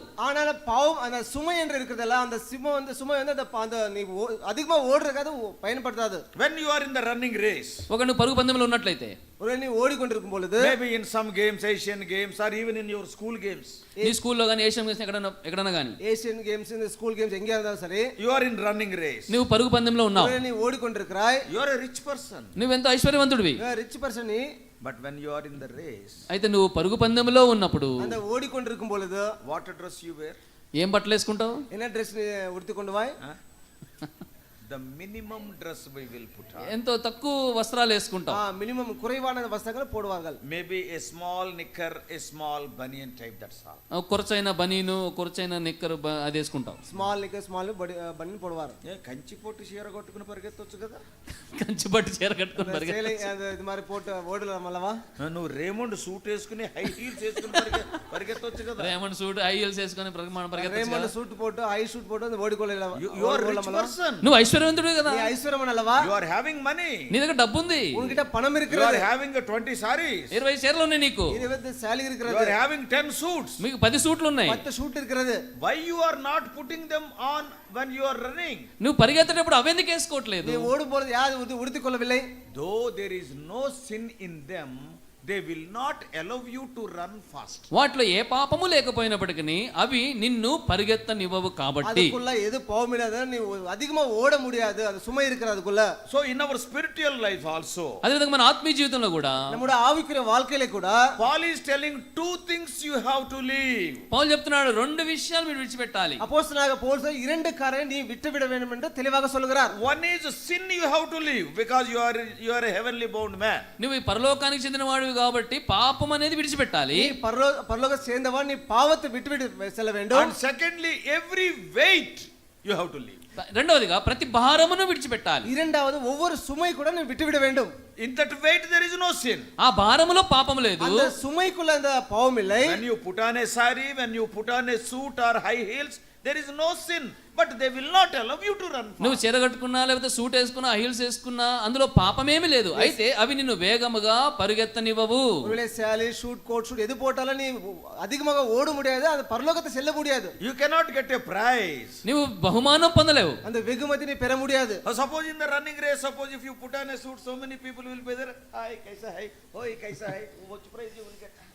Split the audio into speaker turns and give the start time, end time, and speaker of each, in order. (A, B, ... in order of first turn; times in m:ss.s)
0:00.2-0:06.2 A
0:06.4-0:07.9 B
0:07.9-0:09.2 C
0:09.4-0:10.7 A
0:10.6-0:13.8 B
0:14.0-0:16.0 C
0:16.0-0:18.1 A
0:18.2-0:19.4 B
0:19.3-0:20.4 C
0:20.1-0:21.4 A
0:21.5-0:22.6 B
0:22.6-0:23.6 C
0:23.6-0:24.4 A
0:24.8-0:26.2 B
0:26.3-0:28.2 C
0:28.0-0:29.3 A
0:29.4-0:30.4 B
0:30.8-0:31.6 C
0:31.7-0:33.2 A
0:34.6-0:36.7 B
0:36.6-0:38.4 C
0:38.3-0:40.4 A
0:40.4-0:43.8 B
0:44.0-0:46.8 C
0:46.8-0:48.8 A
0:48.8-0:51.0 B
0:51.5-0:53.2 C
0:52.6-0:55.0 A
0:55.2-0:58.9 B
0:57.4-0:57.7 C
0:58.8-1:01.1 C
1:00.6-1:03.9 A
1:02.9-1:04.3 B
1:04.2-1:05.3 C
1:05.1-1:06.1 A
1:06.0-1:07.1 B
1:07.1-1:08.1 C
1:07.9-1:09.1 A
1:08.7-1:10.4 B
1:10.3-1:11.4 C
1:11.3-1:12.6 A
1:12.2-1:13.6 B
1:13.6-1:14.6 C
1:14.4-1:15.4 A
1:15.6-1:18.7 B
1:18.8-1:20.7 C
1:20.4-1:22.2 A
1:22.5-1:27.7 B
1:27.7-1:32.1 C
1:31.8-1:35.9 A
1:36.1-1:38.0 B
1:38.0-1:39.6 C
1:39.5-1:41.0 A
1:41.2-1:44.0 B
1:44.1-1:46.2 C
1:46.2-1:49.7 A
1:49.7-1:53.6 B
1:53.8-1:57.1 C
1:56.9-2:00.4 A
2:00.1-2:03.2 B
2:03.4-2:05.5 C
2:05.4-2:07.7 A
2:08.0-2:09.5 B
2:09.6-2:11.1 C
2:10.8-2:12.8 A
2:12.6-2:19.2 B
2:19.0-2:25.5 C
2:25.4-2:30.3 A
2:30.4-2:32.0 B
2:32.0-2:33.4 C
2:33.4-2:34.8 A
2:34.8-2:41.4 B